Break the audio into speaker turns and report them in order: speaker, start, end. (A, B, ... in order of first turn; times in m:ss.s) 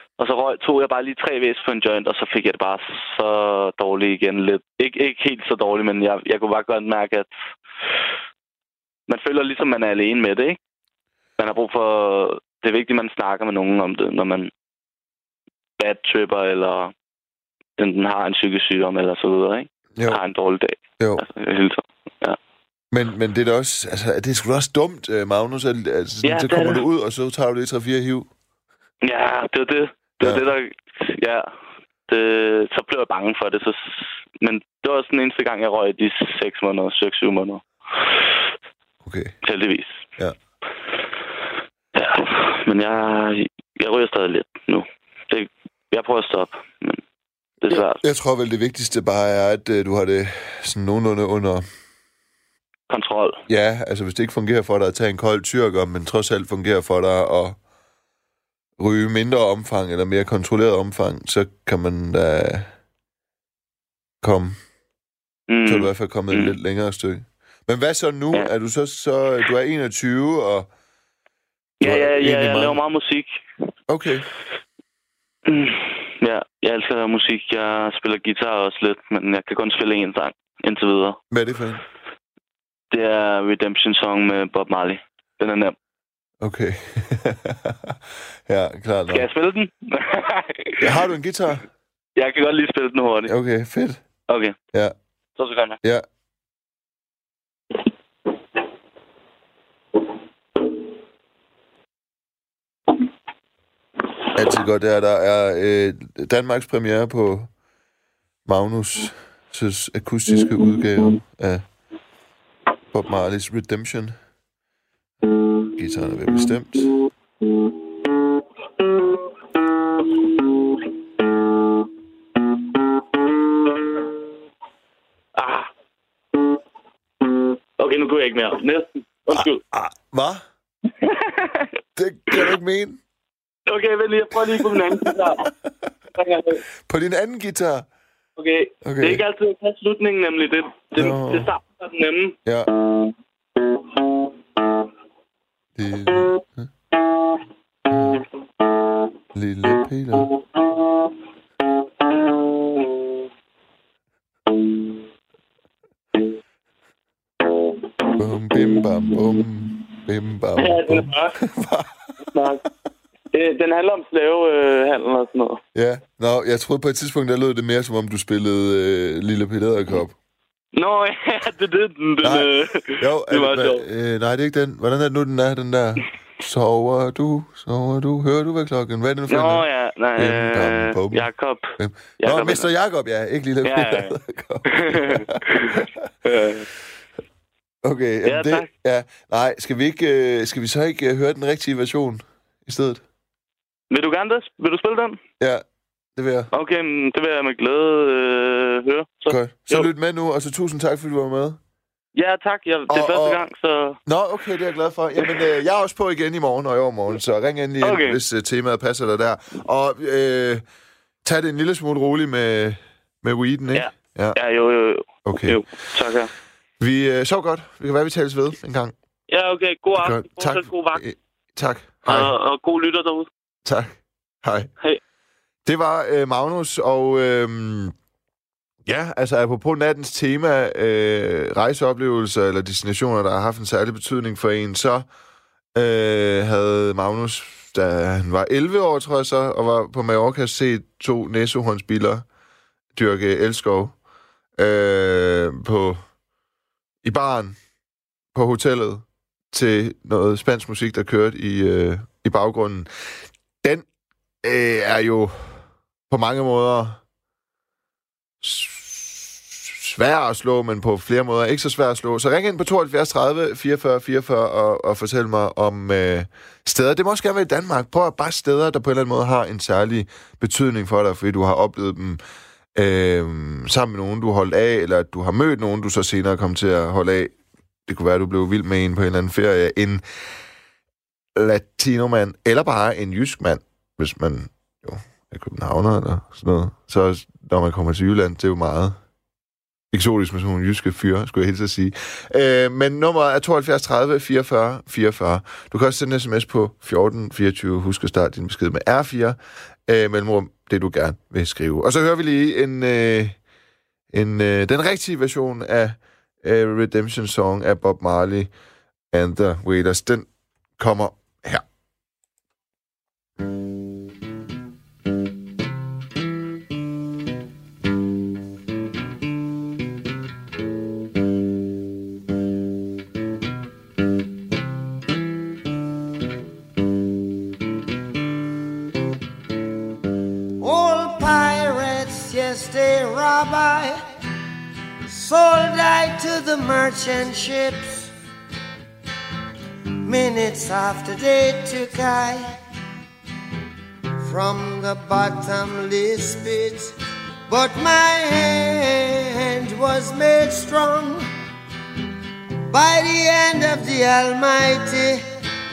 0:00.2-0:07.4 A
0:09.1-0:10.6 A
0:11.4-0:14.5 A
0:15.8-0:16.9 A
0:17.8-0:22.4 A
0:21.0-0:21.2 B
0:22.9-0:28.3 B
0:26.2-0:26.8 A
0:29.0-0:31.5 A
0:32.1-0:38.1 A
0:39.0-0:39.3 B
0:39.4-0:40.0 A
0:41.9-0:47.0 A
0:47.6-0:48.0 A
0:47.7-0:51.6 B
0:52.9-0:53.4 A
0:53.5-0:57.6 B
0:58.8-1:02.7 B
1:04.2-1:04.6 B
1:05.5-1:06.6 A
1:05.6-1:10.7 B
1:11.8-1:13.4 A
1:11.8-1:12.8 B
1:13.9-1:14.3 B
1:15.4-1:21.2 A
1:21.3-1:21.8 B
1:22.9-1:25.7 A
1:26.4-1:29.2 B
1:29.1-1:31.0 A
1:30.8-1:31.6 B
1:32.2-1:33.3 A
1:33.2-1:34.0 B
1:34.3-1:34.5 A
1:35.4-1:35.8 A
1:44.3-1:47.5 B
1:48.4-1:51.6 B
1:52.9-1:54.2 B
1:55.7-1:56.9 B
2:05.4-2:05.7 A
2:07.8-2:09.6 A
2:09.3-2:10.4 B
2:11.0-2:11.7 A
2:12.0-2:13.0 B
2:13.7-2:15.5 A
2:14.6-2:15.5 B
2:16.2-2:16.6 A
2:16.8-2:17.9 B
2:18.4-2:22.4 A
2:18.8-2:19.2 B
2:21.0-2:21.5 B
2:22.4-2:22.7 B
2:25.8-2:26.7 B
2:27.9-2:28.2 B
2:29.3-2:30.3 B
2:38.1-2:42.0 B
2:40.6-2:41.3 A
2:42.3-2:42.6 A
2:43.3-2:45.6 A
2:45.7-2:50.1 B
2:50.7-2:53.8 A
2:52.2-2:59.6 B
2:59.3-3:02.7 A
3:00.2-3:06.1 B
3:03.6-3:04.1 A
3:04.7-3:06.7 A
3:07.8-3:13.0 B
3:08.2-3:08.7 A
3:13.9-3:15.2 A
3:16.2-3:16.5 B
3:16.5-3:19.9 A
3:19.3-3:21.6 B
3:22.1-3:24.0 A
3:22.9-3:23.4 B
3:24.1-3:30.6 B
3:25.2-3:25.5 A
3:27.8-3:28.2 A
3:31.2-3:34.4 B
3:33.7-3:36.3 A
3:35.2-3:35.6 B
3:36.8-3:38.9 B
3:39.3-3:41.0 A
3:39.9-3:42.3 B
3:42.0-3:43.3 A
3:43.6-3:44.7 B
3:45.6-3:47.9 B
3:48.8-3:55.0 B
3:55.7-4:02.2 B
4:02.9-4:04.0 B
4:04.6-4:06.0 B
4:07.0-4:07.6 B
4:08.3-4:13.8 B
4:14.4-4:17.0 B
4:18.4-4:32.2 B
4:32.7-4:37.3 B
4:37.9-4:40.0 B
4:41.4-4:49.0 B
4:49.9-5:03.4 B
5:04.1-5:08.5 B
5:09.1-5:10.3 B
5:10.8-5:11.6 B
5:30.6-5:34.0 C
5:35.1-5:38.1 C
5:40.0-5:42.6 C
5:44.2-5:46.9 C
5:47.5-5:51.3 C
5:52.7-5:55.2 C